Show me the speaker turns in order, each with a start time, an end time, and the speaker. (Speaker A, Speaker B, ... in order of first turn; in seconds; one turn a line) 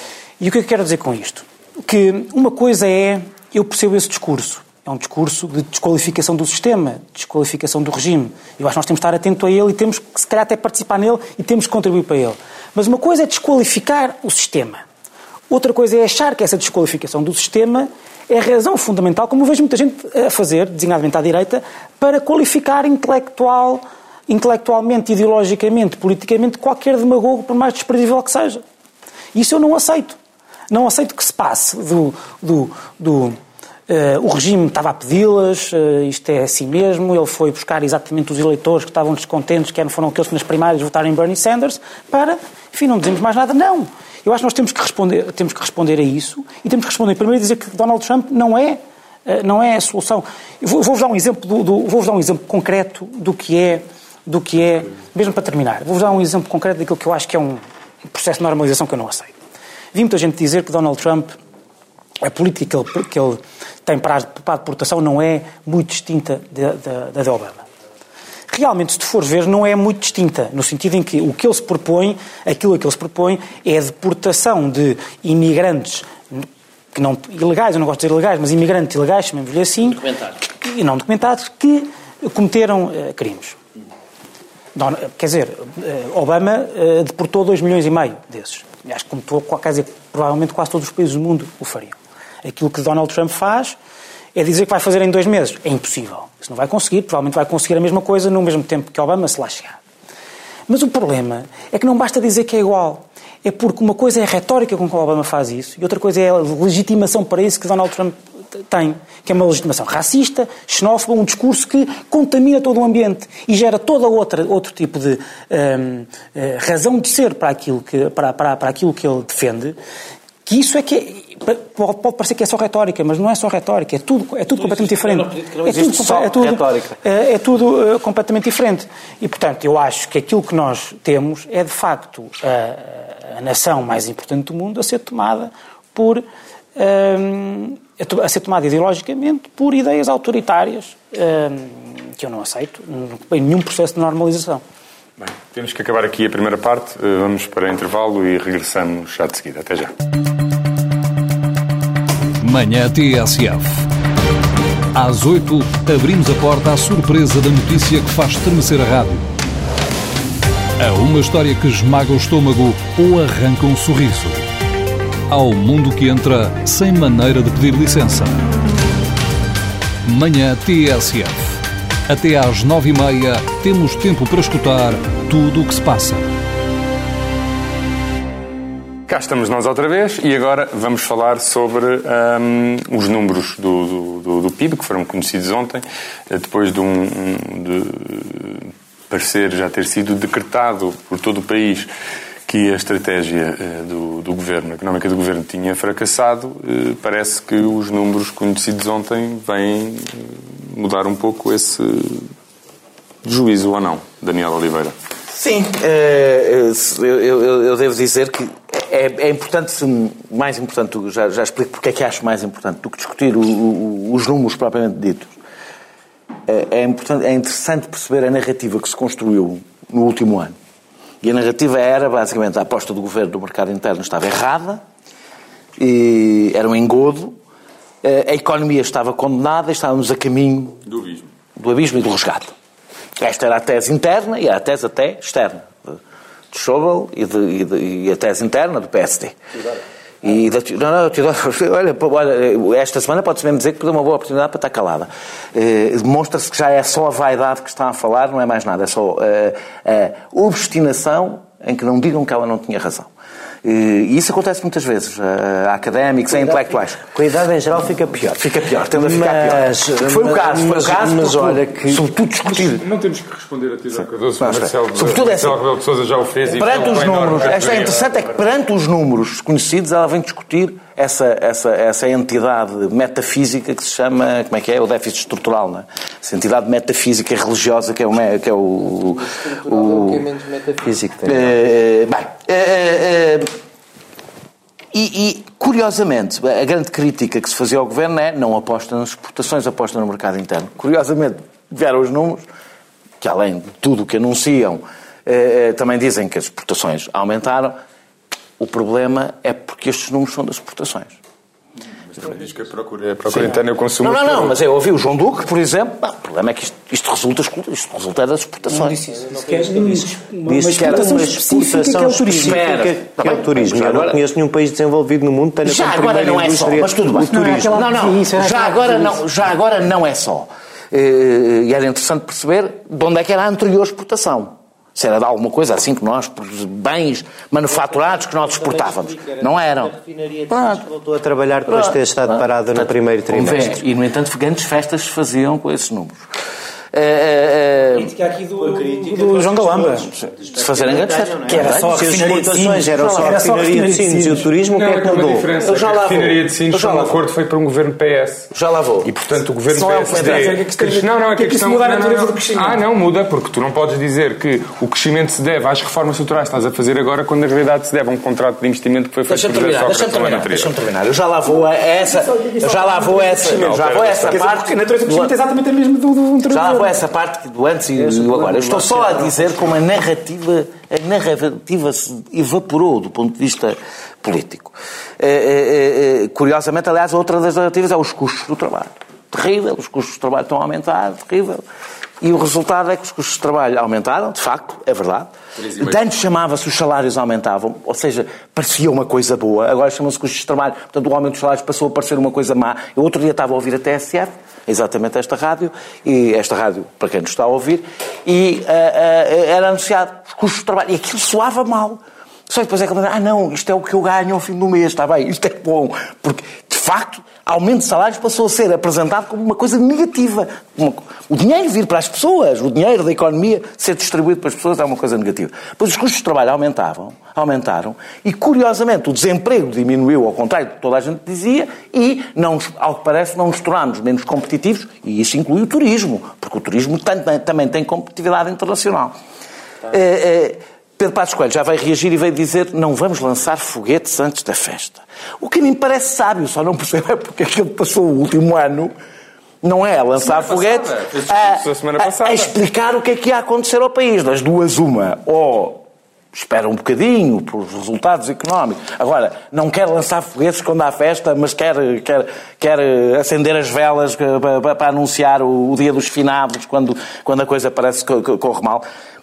Speaker A: 0.4-14.8
Speaker A: 15.5-28.6
Speaker A: 29.3-30.2
Speaker A: 30.7-33.4
Speaker A: 33.9-59.3
Speaker A: 59.9-61.3
Speaker A: 62.2-67.6
Speaker A: 68.5-83.6
Speaker A: 84.7-93.8
Speaker A: 94.3-99.8
Speaker A: 100.7-108.2
Speaker A: 108.7-119.8
Speaker A: 120.5-136.2
Speaker B: 124.5-127.0
Speaker A: 136.8-144.6
Speaker C: 145.2-149.9
Speaker D: 152.4-153.8
Speaker D: 154.9-159.3
Speaker D: 160.8-164.5
Speaker D: 165.3-168.5
Speaker D: 170.0-176.3
Speaker C: 179.1-191.9
Speaker C: 192.4-202.3
Speaker C: 203.2-204.9
Speaker B: 205.3-215.3
Speaker B: 216.4-220.5
Speaker B: 221.2-224.8
Speaker B: 225.8-227.4
Speaker B: 228.0-230.8
Speaker C: 230.9-231.3
Speaker B: 231.6-232.5
Speaker B: 233.2-236.0
Speaker B: 236.5-239.3
Speaker B: 240.2-253.1
Speaker B: 253.6-257.0
Speaker E: 256.4-262.0
Speaker B: 258.4-262.8
Speaker C: 262.6-268.2
Speaker B: 264.4-265.6
Speaker B: 266.4-283.5
Speaker E: 280.1-281.5
Speaker B: 284.9-292.4
Speaker B: 293.2-297.8
Speaker B: 298.6-301.1
Speaker C: 302.1-304.5
Speaker B: 303.3-310.1
Speaker A: 308.7-312.6
Speaker E: 310.4-317.9
Speaker B: 312.3-314.2
Speaker B: 315.6-330.0
Speaker A: 317.3-319.2
Speaker E: 327.9-333.8
Speaker B: 330.5-330.8
Speaker B: 331.7-336.2
Speaker B: 336.9-338.1
Speaker A: 338.0-340.1
Speaker E: 338.6-345.5
Speaker B: 340.5-343.5
Speaker A: 341.4-344.5
Speaker C: 344.6-348.5
Speaker B: 345.6-347.2
Speaker B: 348.5-349.1
Speaker C: 349.0-360.7
Speaker A: 349.7-352.8
Speaker B: 349.7-350.6
Speaker B: 359.3-365.3
Speaker A: 362.1-366.9
Speaker C: 363.5-364.4
Speaker B: 366.5-381.6
Speaker E: 368.1-369.4
Speaker B: 382.2-429.2
Speaker B: 429.9-438.9
Speaker B: 439.6-445.8
Speaker C: 440.2-442.5
Speaker B: 446.3-458.8